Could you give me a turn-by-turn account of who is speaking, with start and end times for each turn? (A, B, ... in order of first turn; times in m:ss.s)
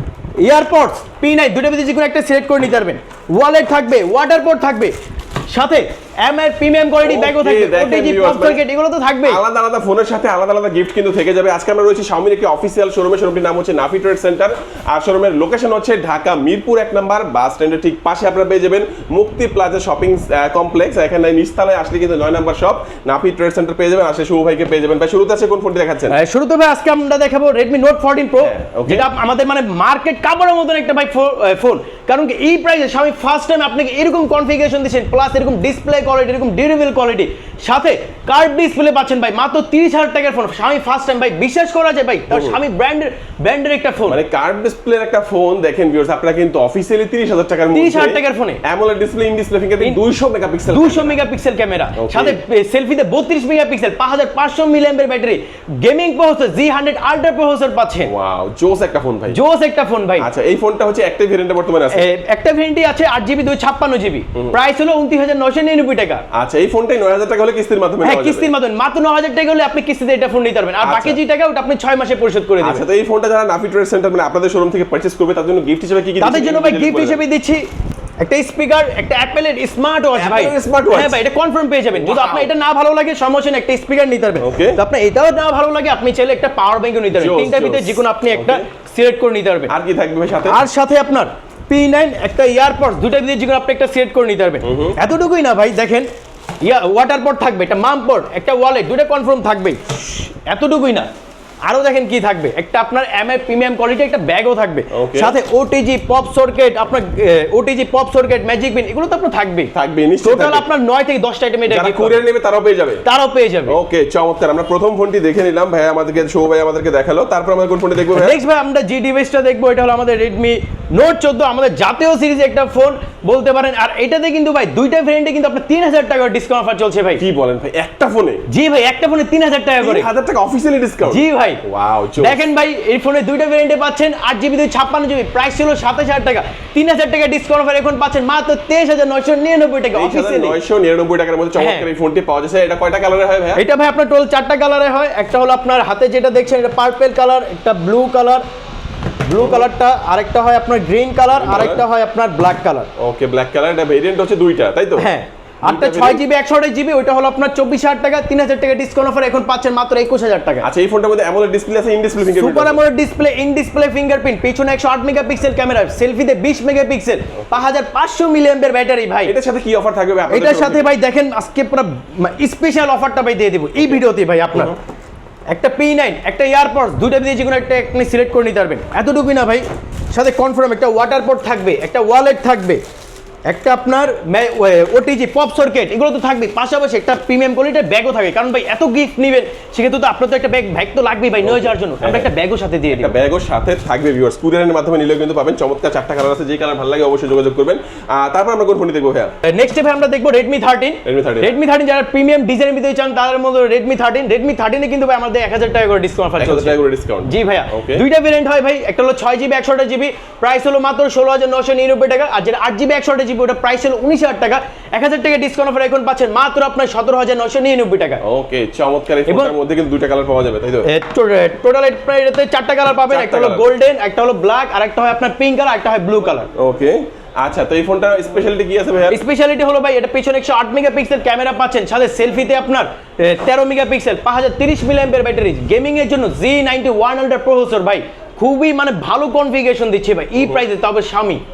0:00.4-0:04.9 A
0:05.5-0:09.4 A
0:07.0-0:08.6 B
0:09.2-0:26.2 B
0:26.1-0:44.2 A
0:28.4-0:29.1 B
0:42.3-0:42.6 B
0:44.1-0:51.2 B
0:47.7-0:48.6 A
0:50.7-0:58.1 A
0:52.0-0:52.4 B
0:58.1-0:59.4 B
0:59.3-1:00.3 A
1:00.2-1:02.1 B
1:01.9-1:06.2 A
1:06.3-1:08.5 B
1:08.0-1:12.8 A
1:10.8-1:11.2 B
1:12.6-1:17.2 B
1:16.2-1:17.7 A
1:18.2-1:29.7 A
1:20.2-1:21.2 B
1:21.9-1:22.5 B
1:24.4-1:24.8 B
1:27.2-1:28.6 B
1:29.7-1:30.6 B
1:30.5-1:36.1 A
1:34.6-1:35.0 B
1:36.6-1:41.1 A
1:41.6-1:52.2 A
1:44.9-1:45.4 B
1:49.7-1:50.7 B
1:51.7-1:53.0 B
1:53.0-1:53.8 A
1:53.7-1:58.4 B
1:58.2-2:07.2 A
2:07.2-2:08.5 B
2:08.5-2:10.1 A
2:09.8-2:12.4 B
2:11.0-2:11.6 A
2:12.2-2:20.6 A
2:19.9-2:23.6 B
2:21.6-2:21.9 A
2:23.6-2:28.4 A
2:29.2-2:32.9 A
2:29.4-2:29.6 B
2:31.3-2:31.8 B
2:33.0-2:35.1 B
2:35.0-2:40.7 A
2:35.6-2:36.2 B
2:40.6-2:42.8 B
2:42.3-2:49.3 A
2:49.2-2:50.9 B
2:50.3-2:54.8 A
2:55.5-3:02.8 A
3:03.5-3:13.1 A
3:11.4-3:12.3 B
3:12.9-3:19.3 B
3:19.4-3:38.2 A
3:21.0-3:21.6 B
3:26.4-3:28.0 B
3:38.2-3:40.9 B
3:39.3-3:39.5 A
3:40.8-3:46.5 A
3:43.1-3:43.7 B
3:46.6-3:49.2 B
3:49.1-4:01.4 A